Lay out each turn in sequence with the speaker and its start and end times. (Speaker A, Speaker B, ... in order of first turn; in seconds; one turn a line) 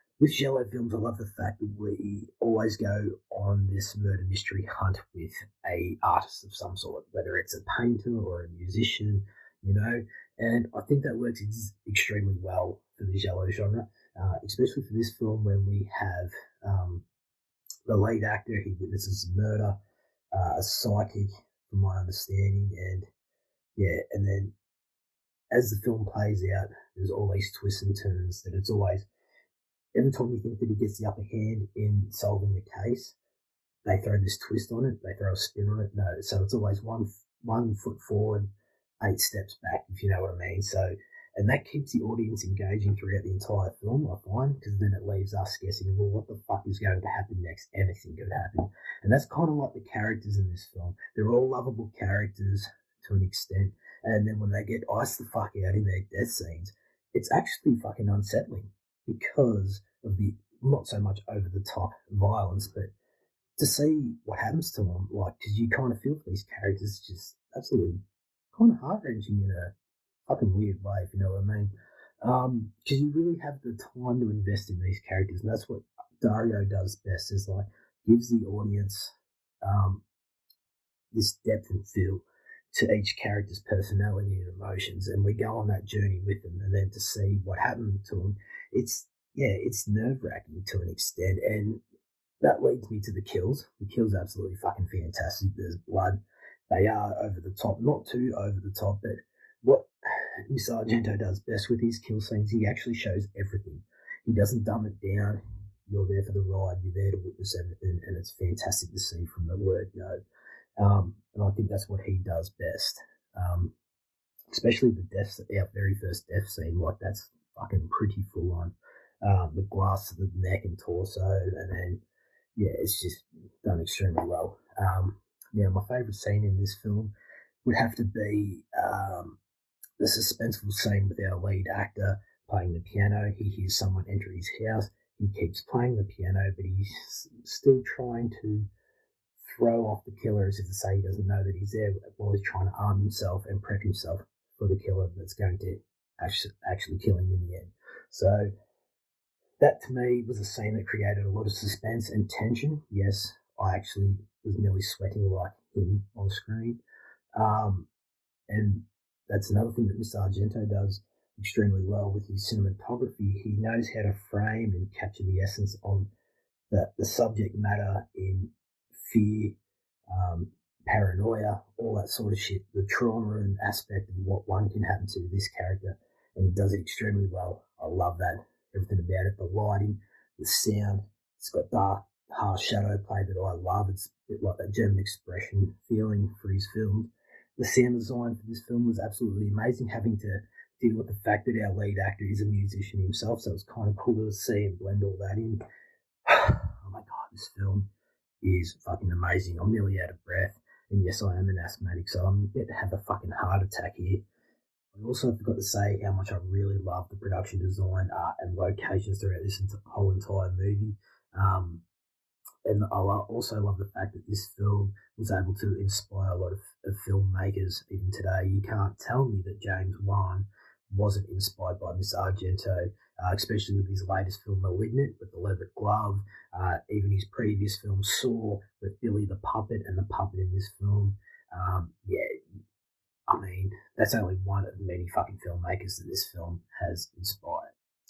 Speaker A: 0.2-17.0
Speaker A: 17.9-19.8
Speaker A: 20.3-23.1
Speaker A: 23.8-24.5
Speaker A: 25.5-29.1
Speaker A: 29.9-33.2
Speaker A: 33.9-38.5
Speaker A: 39.0-62.9
Speaker A: 63.6-68.0
Speaker A: 68.5-69.7
Speaker A: 70.3-80.0
Speaker A: 81.1-91.8
Speaker A: 92.4-96.2
Speaker A: 96.7-99.9
Speaker A: 100.5-110.2
Speaker A: 110.8-113.7
Speaker A: 114.5-122.0
Speaker A: 122.6-127.1
Speaker A: 127.7-129.4
Speaker A: 130.0-138.7
Speaker A: 139.4-148.5
Speaker A: 149.6-156.8
Speaker A: 157.4-157.9
Speaker A: 158.5-166.1
Speaker A: 166.7-168.5
Speaker A: 169.0-169.6
Speaker A: 170.1-195.6
Speaker A: 196.3-197.9
Speaker A: 198.4-204.2
Speaker A: 204.9-211.8
Speaker A: 212.7-232.4
Speaker A: 233.3-237.7